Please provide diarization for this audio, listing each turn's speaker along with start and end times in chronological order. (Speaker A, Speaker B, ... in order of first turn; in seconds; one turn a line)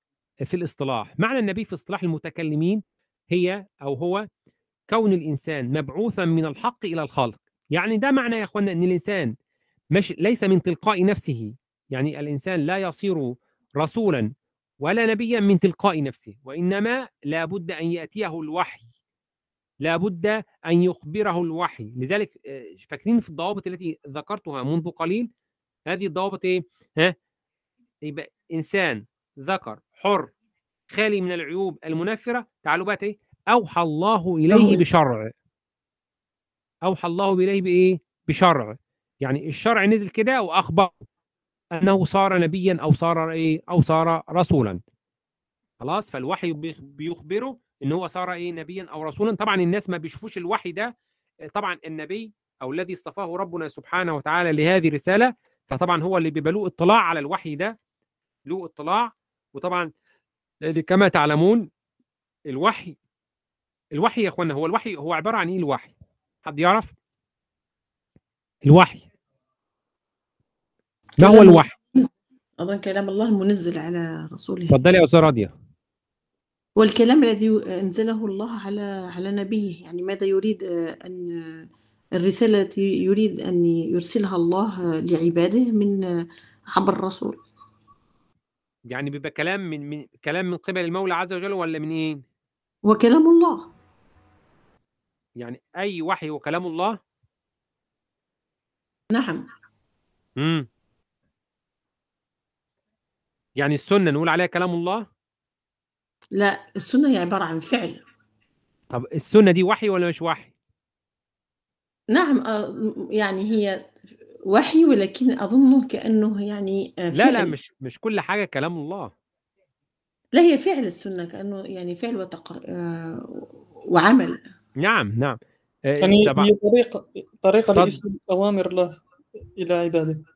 Speaker A: 0.5-4.2
Speaker A: 4.9-9.3
Speaker A: 9.9-14.3
Speaker A: 14.8-18.9
Speaker A: 19.8-25.3
Speaker A: 25.9-27.1
Speaker A: 28.1-30.3
Speaker A: 30.9-35.3
Speaker B: 34.5-34.8
Speaker A: 36.9-41.0
Speaker A: 41.8-44.8
Speaker A: 45.8-50.9
Speaker A: 51.5-57.8
Speaker A: 58.5-59.9
Speaker A: 60.6-61.7
Speaker A: 62.5-63.0
Speaker A: 63.9-65.9
Speaker A: 66.5-67.0
Speaker A: 68.7-69.1
Speaker B: 71.2-74.8
Speaker A: 71.2-71.8
Speaker A: 74.7-75.5
Speaker B: 76.8-86.0
Speaker B: 86.7-87.4
Speaker A: 88.9-92.2
Speaker B: 92.8-93.7
Speaker A: 95.4-97.0
Speaker B: 99.1-99.5
Speaker A: 100.4-100.7
Speaker A: 103.6-105.0
Speaker B: 106.3-108.0
Speaker A: 108.9-110.5
Speaker B: 112.1-113.9
Speaker B: 114.5-117.5
Speaker A: 117.1-119.1
Speaker B: 120.3-124.4
Speaker A: 124.8-126.5
Speaker C: 126.0-129.0
Speaker C: 129.6-130.2